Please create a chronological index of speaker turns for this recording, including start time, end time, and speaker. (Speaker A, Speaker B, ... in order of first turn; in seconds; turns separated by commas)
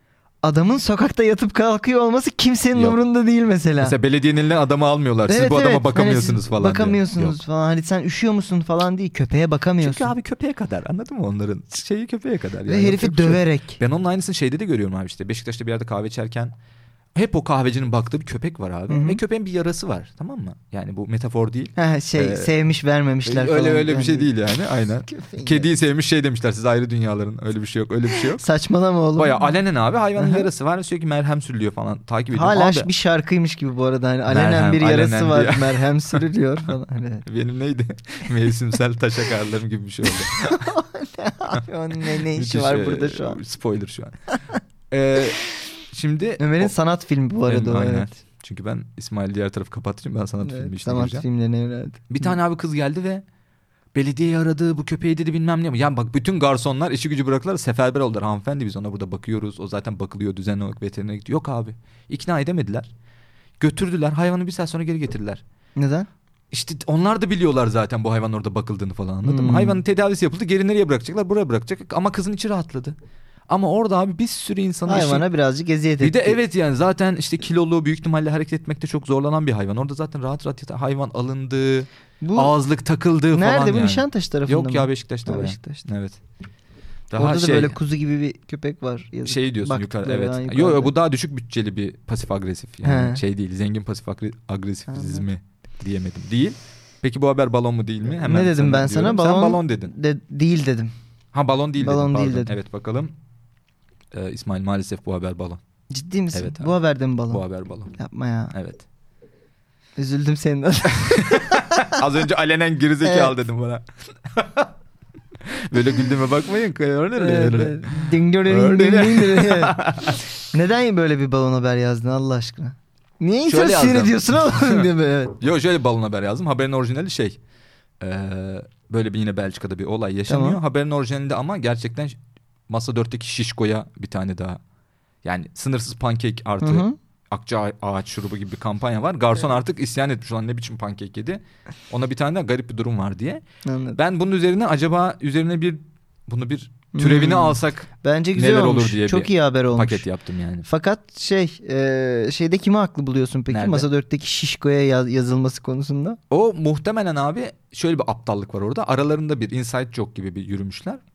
Speaker A: 0.4-3.9, Speaker B: 3.8-7.4, Speaker A: 5.2-10.1, Speaker B: 9.8-16.5, Speaker A: 12.7-13.8, Speaker B: 17.1-22.5, Speaker A: 18.9-19.2, Speaker A: 21.8-24.3, Speaker B: 23.2-28.4, Speaker A: 25.0-25.7, Speaker A: 28.3-29.5, Speaker B: 29.1-32.9, Speaker A: 30.2-30.4, Speaker A: 32.3-37.2, Speaker B: 34.3-36.2, Speaker B: 37.2-40.7, Speaker A: 40.3-43.4, Speaker B: 41.5-44.2, Speaker B: 44.9-45.4, Speaker B: 45.9-46.7, Speaker A: 46.4-48.1, Speaker B: 47.5-51.2, Speaker A: 50.4-52.3, Speaker B: 52.1-53.2, Speaker B: 53.9-62.9, Speaker B: 63.6-65.4, Speaker A: 65.8-66.1, Speaker B: 66.5-73.0, Speaker A: 69.2-69.8, Speaker B: 73.5-75.2, Speaker A: 74.8-76.4, Speaker B: 76.0-86.2, Speaker A: 82.2-82.5, Speaker A: 83.3-85.8, Speaker B: 87.1-87.8, Speaker A: 87.2-90.9, Speaker B: 89.2-99.9, Speaker A: 92.8-93.2, Speaker A: 94.9-95.2, Speaker A: 98.2-100.9, Speaker B: 101.3-103.1, Speaker A: 101.8-102.5, Speaker B: 104.1-105.6, Speaker A: 105.9-107.4, Speaker B: 106.3-106.7, Speaker B: 107.3-108.0, Speaker A: 108.0-108.5, Speaker B: 108.5-108.8, Speaker A: 110.0-112.0, Speaker B: 110.9-114.7, Speaker A: 113.0-113.3, Speaker B: 115.4-120.2, Speaker A: 117.2-125.4, Speaker B: 123.4-127.4, Speaker B: 128.0-132.2, Speaker A: 130.3-130.6, Speaker B: 132.7-134.6, Speaker B: 135.2-143.4, Speaker A: 136.6-136.9, Speaker A: 143.6-144.0, Speaker B: 143.9-150.7, Speaker A: 146.9-150.0, Speaker A: 150.6-156.2, Speaker B: 153.5-153.9, Speaker B: 156.3-161.0